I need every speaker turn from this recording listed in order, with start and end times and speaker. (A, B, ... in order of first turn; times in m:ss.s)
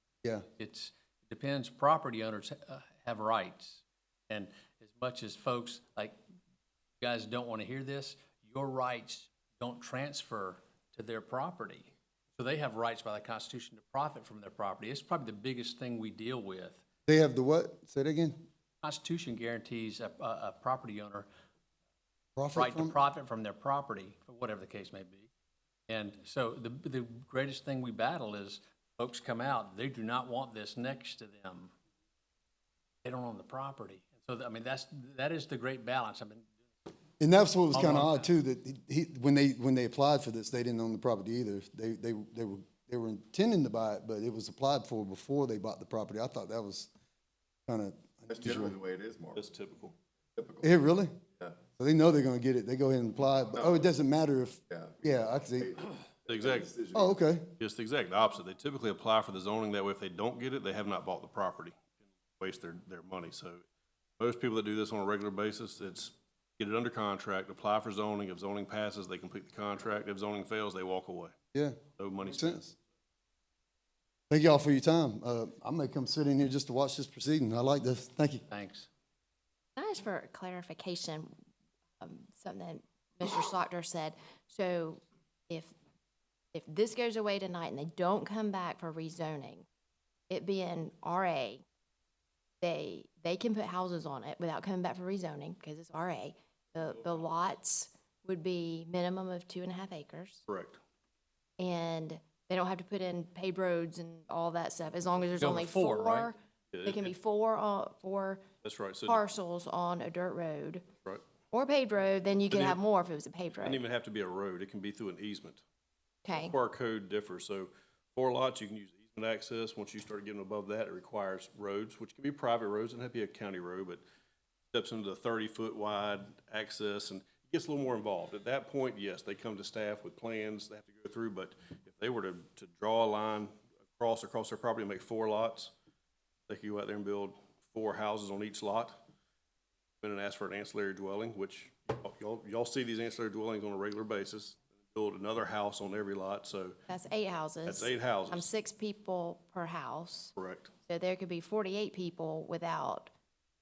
0:00.6-0:06.2 A
0:07.0-0:16.8 A
0:17.1-0:18.4 B
0:18.8-0:21.3 A
0:22.4-0:23.0 B
0:22.5-0:25.3 A
0:25.9-0:31.7 A
0:33.0-0:36.5 A
0:37.2-0:46.9 B
0:37.7-0:38.3 A
0:47.7-0:48.8 B
0:48.3-0:49.4 C
0:49.4-0:49.9 D
0:50.4-0:50.7 C
0:50.6-0:51.2 B
0:51.8-0:55.7 B
0:53.5-0:53.9 C
0:54.7-0:57.2 C
0:56.3-0:56.8 D
0:56.9-0:57.5 B
0:57.6-1:01.8 D
1:02.4-1:03.6 D
1:04.2-1:11.3 D
1:11.5-1:12.7 B
1:12.0-1:12.8 D
1:14.3-1:18.4 B
1:18.5-1:18.9 A
1:19.8-1:21.3 E
1:22.0-1:25.7 E
1:26.5-1:29.7 E
1:30.3-1:31.6 E
1:32.6-1:40.4 E
1:40.5-1:40.8 D
1:41.6-1:48.4 E
1:45.4-1:46.3 A
1:46.7-1:47.1 D
1:48.6-1:49.2 D
1:49.1-1:50.9 E
1:51.5-1:53.8 E
1:52.5-1:52.8 D
1:53.6-1:55.6 D
1:56.2-1:56.5 E
1:56.3-2:04.0 D
2:04.7-2:15.7 D
2:16.5-2:19.0 D
2:20.0-2:26.8 D
2:26.9-2:30.3 E
2:27.7-2:28.5 D
2:30.4-2:30.7 D
2:30.8-2:33.1 E